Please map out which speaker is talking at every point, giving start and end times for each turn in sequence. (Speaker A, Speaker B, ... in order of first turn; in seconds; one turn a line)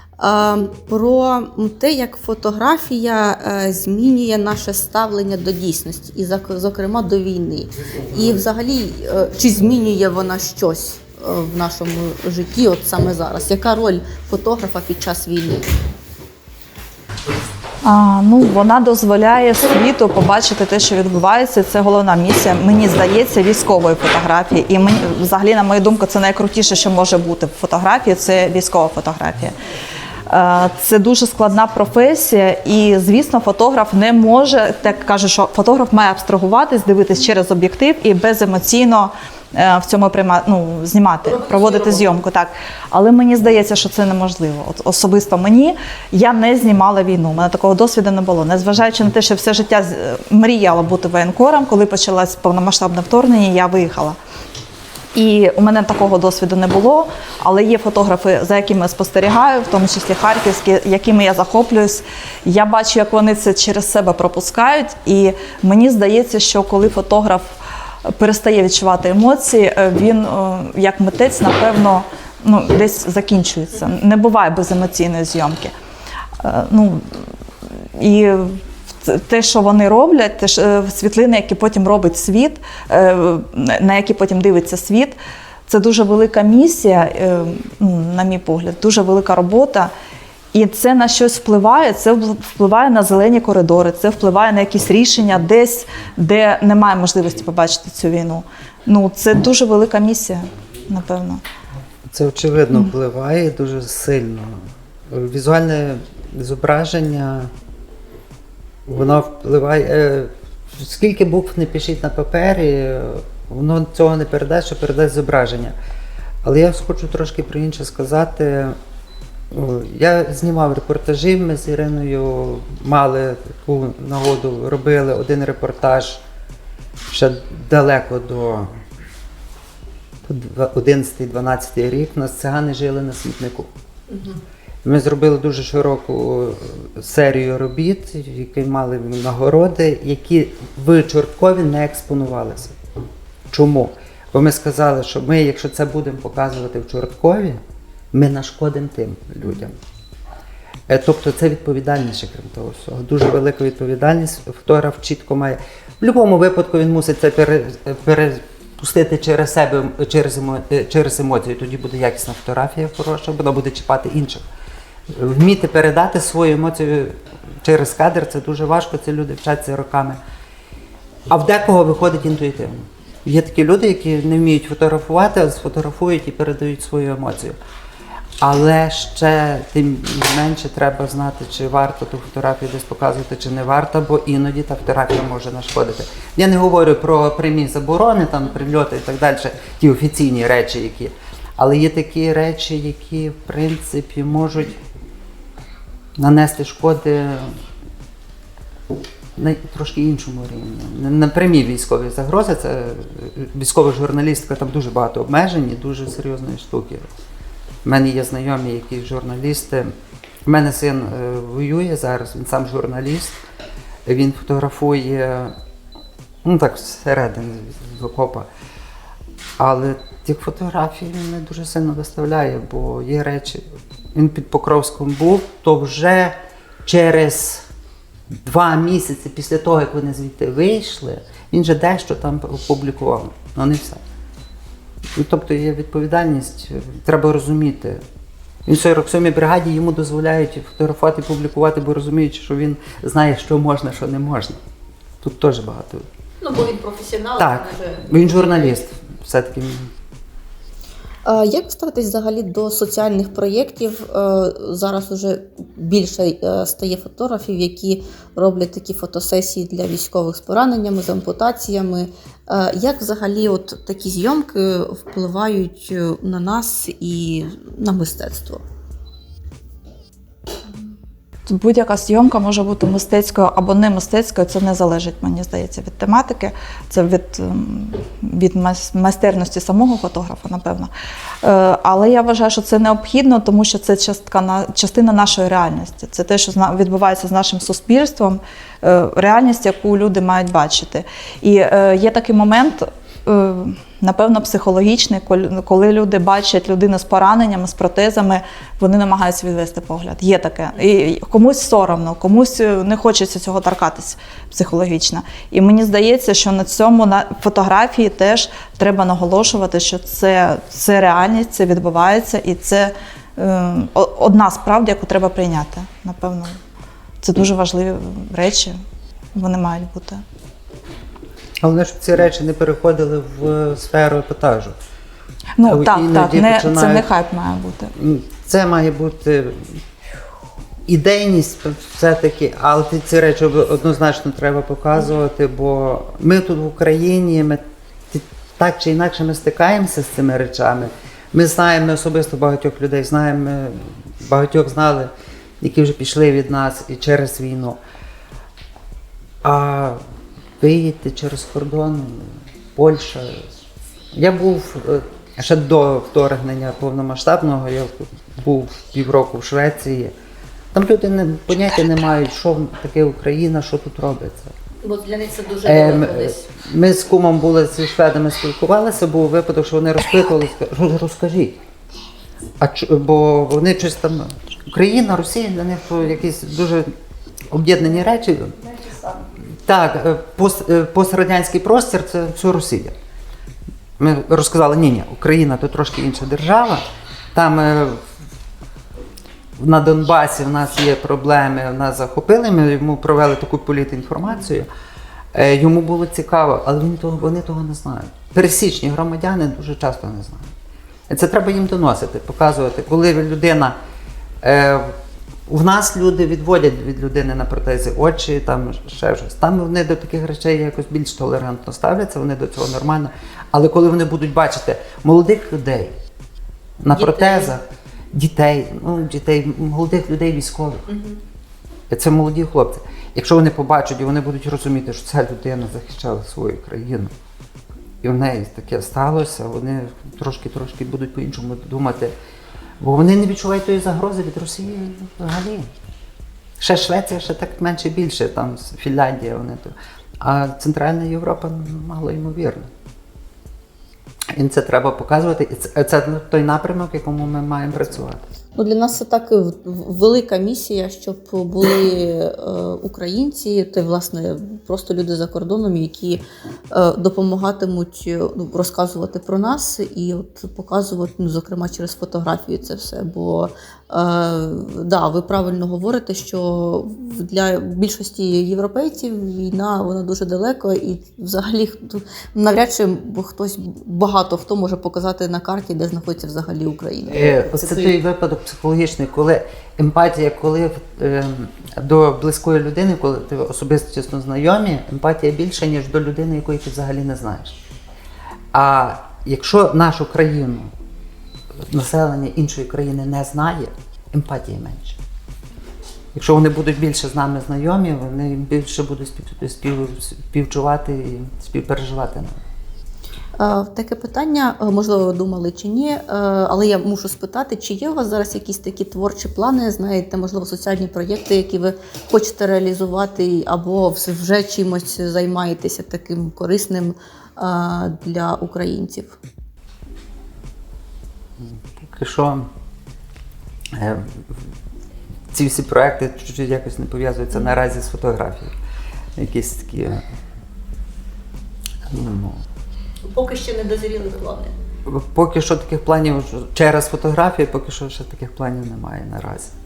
Speaker A: 0.2-15.6
Speaker B: 17.8-29.5
Speaker B: 30.3-54.2
Speaker A: 41.3-42.1
Speaker B: 55.1-75.7
Speaker B: 76.4-77.3
Speaker B: 78.0-89.9
Speaker B: 90.5-101.4
Speaker C: 102.1-107.5
Speaker C: 108.8-115.7
Speaker C: 116.4-118.8
Speaker C: 119.5-126.2
Speaker C: 127.1-128.8
Speaker C: 130.2-133.7
Speaker C: 134.8-142.8
Speaker C: 143.5-147.6
Speaker C: 148.1-149.8
Speaker C: 150.9-164.4
Speaker C: 165.1-170.2
Speaker C: 171.3-177.6
Speaker C: 178.4-194.8
Speaker C: 196.2-197.6
Speaker C: 199.3-207.1
Speaker C: 207.8-209.9
Speaker C: 210.4-213.4
Speaker C: 214.1-215.6
Speaker C: 216.4-218.5
Speaker C: 219.6-227.7
Speaker C: 228.3-234.0
Speaker C: 235.1-238.0
Speaker C: 238.7-244.6
Speaker C: 245.2-246.1
Speaker A: 246.4-248.8
Speaker C: 247.4-249.9
Speaker A: 251.2-268.6
Speaker B: 271.5-280.9
Speaker B: 281.4-316.6
Speaker B: 317.2-318.8
Speaker B: 319.3-320.2
Speaker C: 321.6-324.8
Speaker B: 325.6-327.9
Speaker C: 325.6-327.1
Speaker C: 327.9-329.8
Speaker C: 330.9-347.8
Speaker C: 349.4-350.0
Speaker C: 350.6-353.5
Speaker C: 354.1-360.1
Speaker C: 360.7-364.5
Speaker A: 364.8-366.4
Speaker C: 365.6-371.6
Speaker C: 372.6-376.9
Speaker C: 377.5-378.7
Speaker C: 379.6-382.9
Speaker C: 384.0-388.1
Speaker C: 389.6-394.7
Speaker C: 395.3-400.5
Speaker C: 401.1-403.7
Speaker C: 404.4-416.0
Speaker C: 416.8-420.9
Speaker A: 416.9-417.5
Speaker A: 420.9-421.2
Speaker C: 421.9-427.1
Speaker C: 428.0-432.1
Speaker C: 432.8-435.7
Speaker C: 436.6-442.7
Speaker C: 444.3-448.2
Speaker A: 448.6-477.3
Speaker C: 477.1-487.6
Speaker C: 488.5-490.7
Speaker C: 491.7-495.0
Speaker C: 496.1-502.4
Speaker A: 503.4-519.2
Speaker C: 521.4-522.5
Speaker C: 523.7-524.5
Speaker C: 525.3-528.5
Speaker C: 529.2-530.0
Speaker C: 531.9-532.4
Speaker A: 533.1-534.5
Speaker C: 534.9-539.5